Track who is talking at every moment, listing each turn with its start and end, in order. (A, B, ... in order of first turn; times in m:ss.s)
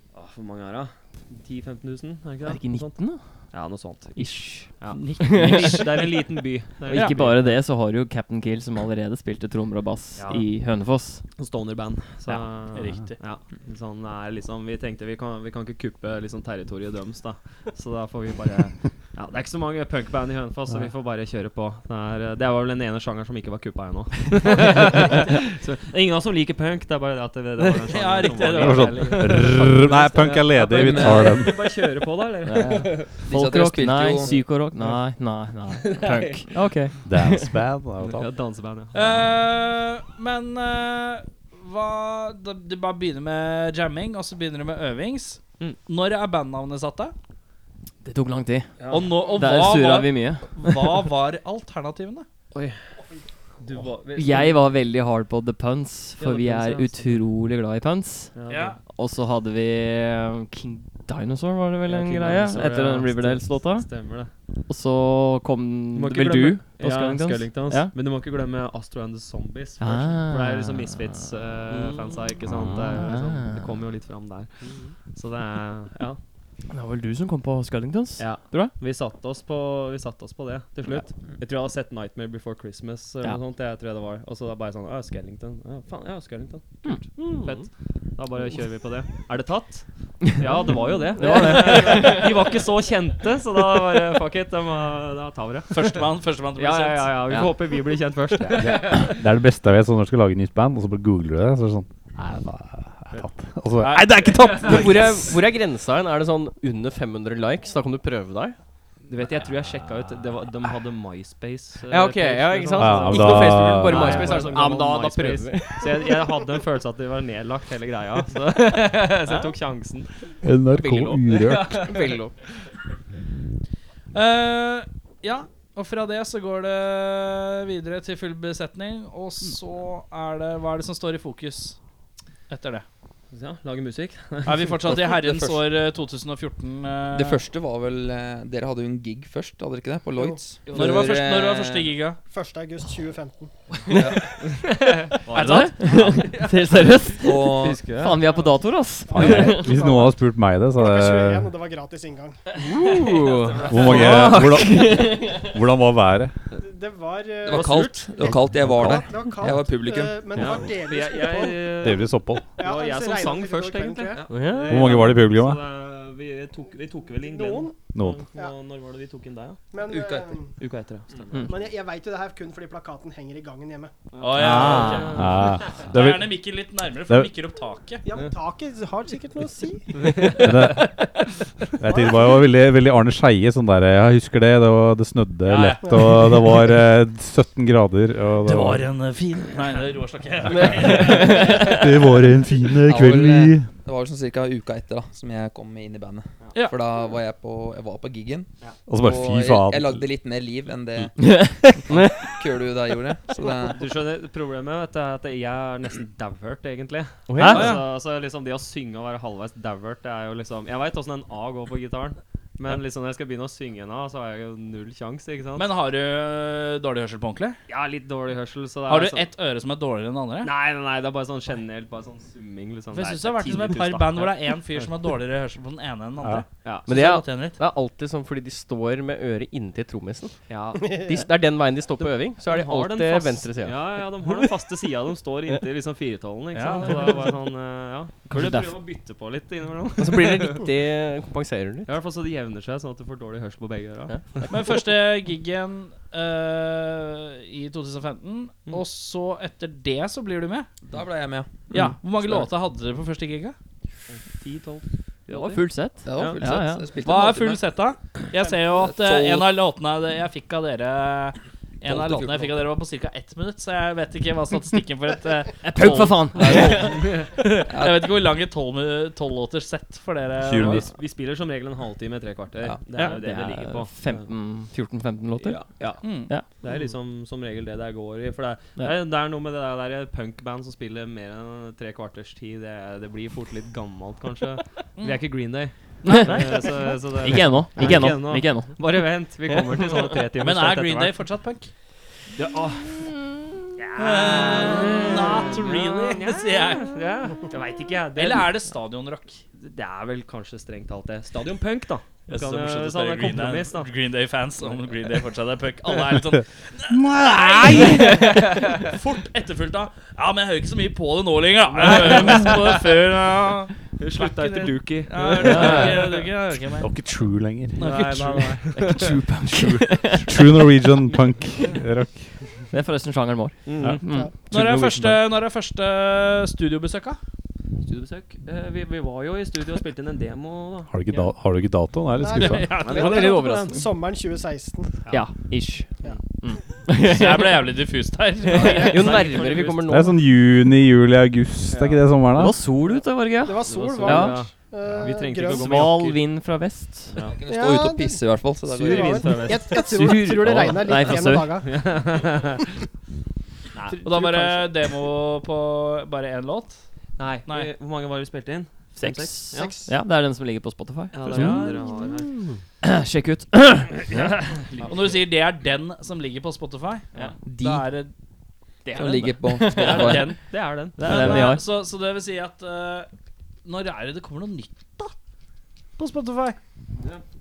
0:00.1-0:07.6 A
0:02.4-0:03.3 B
0:04.2-0:06.0 B
0:04.9-0:06.0 C
0:06.8-0:11.2 B
0:10.2-0:10.6 A
0:11.4-0:33.3 A
0:12.2-0:13.2 C
0:27.8-0:29.6 C
0:28.6-0:31.6 D
0:30.5-0:31.5 E
0:32.4-0:37.5 B
0:33.2-0:34.4 E
0:34.2-0:34.9 A
0:35.8-0:36.6 A
0:37.0-0:38.3 D
0:38.0-0:39.4 A
0:38.9-0:47.1 C
0:48.0-0:51.0 B
0:48.8-0:49.6 A
0:48.9-0:52.2 C
0:52.5-0:52.8 A
0:53.6-0:54.6 A
0:54.1-0:58.4 B
0:56.2-0:57.2 A
0:58.3-0:58.8 A
0:58.5-0:58.8 C
0:58.9-1:04.2 B
1:01.8-1:04.3 A
1:04.7-1:07.9 B
1:05.9-1:16.2 A
1:09.8-1:11.1 B
1:11.7-1:12.3 F
1:12.5-1:13.8 B
1:16.7-1:18.8 B
1:18.2-1:36.0 A
1:26.8-1:27.1 B
1:27.2-1:27.7 F
1:30.2-1:32.4 B
1:31.2-1:31.6 F
1:35.7-1:37.4 C
1:36.5-1:39.1 A
1:37.3-1:37.6 B
1:38.6-1:45.3 D
1:43.8-1:44.2 C
1:44.5-1:48.6 F
1:49.1-2:00.1 A
1:51.9-1:56.4 F
1:52.8-1:54.5 D
1:59.3-1:59.5 F
2:00.4-2:01.8 D
2:00.7-2:02.3 F
2:01.5-2:01.8 A
2:04.1-2:11.8 C
2:12.5-2:12.8 C
2:13.3-2:15.2 A
2:14.4-2:17.4 C
2:17.1-2:21.9 E
2:20.7-2:21.0 A
2:20.7-2:22.2 C
2:22.3-2:23.5 G
2:23.9-2:24.3 E
2:24.8-2:26.3 A
2:25.3-2:26.5 C
2:25.3-2:29.7 B
2:27.2-2:27.9 E
2:27.6-2:28.2 A
2:29.1-2:30.2 G
2:29.1-2:31.5 D
2:30.7-2:32.4 G
2:32.6-2:33.7 F
2:33.4-2:34.5 A
2:33.7-2:36.3 D
2:33.8-2:35.5 B
2:36.5-2:41.9 G
2:37.4-2:40.6 E
2:37.5-2:38.0 A
2:38.2-2:39.0 D
2:40.3-2:49.6 A
2:41.8-2:42.5 D
2:42.6-2:44.3 G
2:44.3-2:44.8 F
2:44.7-2:45.6 D
2:47.2-2:47.8 G
2:47.9-2:48.2 D
2:49.7-2:50.5 G
2:49.9-2:50.2 E
2:50.6-2:51.6 A
2:51.4-2:53.9 G
2:54.1-2:55.8 A
2:54.2-2:58.0 C
2:54.4-2:56.4 D
2:58.0-3:00.4 G
2:59.9-3:00.7 A
3:00.4-3:01.0 D
3:01.8-3:08.9 D
3:01.8-3:02.4 G
3:05.4-3:06.4 C
3:05.8-3:06.1 G
3:08.4-3:11.9 C
3:10.6-3:13.7 D
3:12.8-3:23.9 E
3:18.8-3:20.0 D
3:21.2-3:21.8 B
3:23.4-3:35.7 A
3:27.3-3:27.8 F
3:27.4-3:27.8 B
3:27.4-3:27.8 C
3:35.6-3:37.6 C
3:37.7-3:39.3 A
3:38.9-3:40.5 C
3:40.4-3:44.9 A
3:42.9-3:47.6 C
3:46.2-3:46.4 D
3:46.6-3:46.9 A
3:46.9-3:54.5 F
3:50.5-3:51.0 A
3:50.8-3:51.2 G
3:52.0-4:00.6 A
3:56.5-3:57.3 C
3:58.3-3:58.7 B
4:00.0-4:01.9 F
4:01.8-4:04.2 A
4:04.1-4:04.5 F
4:04.5-4:10.7 C
4:10.9-4:12.4 E
4:11.7-4:13.6 C
4:14.1-4:16.5 A
4:15.3-4:16.9 B
4:16.0-4:17.6 E
4:17.0-4:30.8 C
4:18.6-4:19.5 E
4:21.8-4:22.5 E
4:25.6-4:27.0 B
4:25.8-4:28.1 E
4:26.8-4:27.3 A
4:30.4-4:30.9 D
4:30.6-4:34.6 A
4:32.9-4:36.5 B
4:35.6-4:51.2 A
4:36.0-4:36.4 C
4:45.0-4:45.2 C
4:46.0-4:46.9 C
4:46.1-4:46.5 B
4:47.2-4:48.8 B
4:50.4-4:51.7 C
4:52.3-4:53.0 A
4:53.8-4:58.6 A
4:54.0-4:57.0 C
4:58.2-4:59.4 C
4:59.6-5:03.9 A
5:02.3-5:16.9 C
5:06.9-5:08.0 D
5:08.3-5:08.9 A
5:11.7-5:12.9 A
5:14.0-5:16.2 A
5:15.4-5:16.2 B
5:16.8-5:17.8 D
5:17.8-5:18.6 C
5:17.8-5:19.2 A
5:18.7-5:20.6 B
5:20.2-5:22.4 D
5:22.7-5:24.3 B
5:23.6-5:24.0 A
5:23.8-5:25.2 D
5:24.0-5:24.3 G
5:24.5-5:27.2 C
5:27.8-5:31.1 A
5:30.9-5:32.7 D
5:32.2-5:35.0 G
5:32.4-5:33.5 C
5:32.8-5:33.6 A
5:32.8-5:33.8 F
5:35.1-5:37.7 B
5:36.9-5:39.6 C
5:38.5-5:39.9 A
5:38.5-5:38.9 B
5:38.6-5:40.2 F
5:39.9-5:42.6 D
5:41.7-5:42.0 A
5:42.3-5:44.5 B
5:43.4-5:45.9 G
5:43.7-5:46.4 A
5:45.5-5:47.1 B
5:47.1-5:47.4 A
5:47.2-5:49.5 E
5:47.4-5:51.7 G
5:48.7-5:52.7 A
5:49.7-5:51.6 B
5:53.7-5:54.2 A
5:54.0-5:56.8 C
5:57.2-5:59.7 A
5:59.0-6:01.9 B
5:59.5-5:59.9 G
6:01.1-6:02.4 A
6:01.3-6:02.6 F
6:02.8-6:04.3 B
6:04.1-6:05.2 A
6:04.8-6:08.1 C
6:07.1-6:07.8 B
6:07.4-6:07.9 E
6:08.9-6:10.4 B
6:08.9-6:10.3 E
6:09.8-6:11.5 A
6:09.8-6:10.3 C
6:11.0-6:11.7 B
6:11.0-6:13.1 C
6:13.6-6:15.1 C
6:16.0-6:16.6 C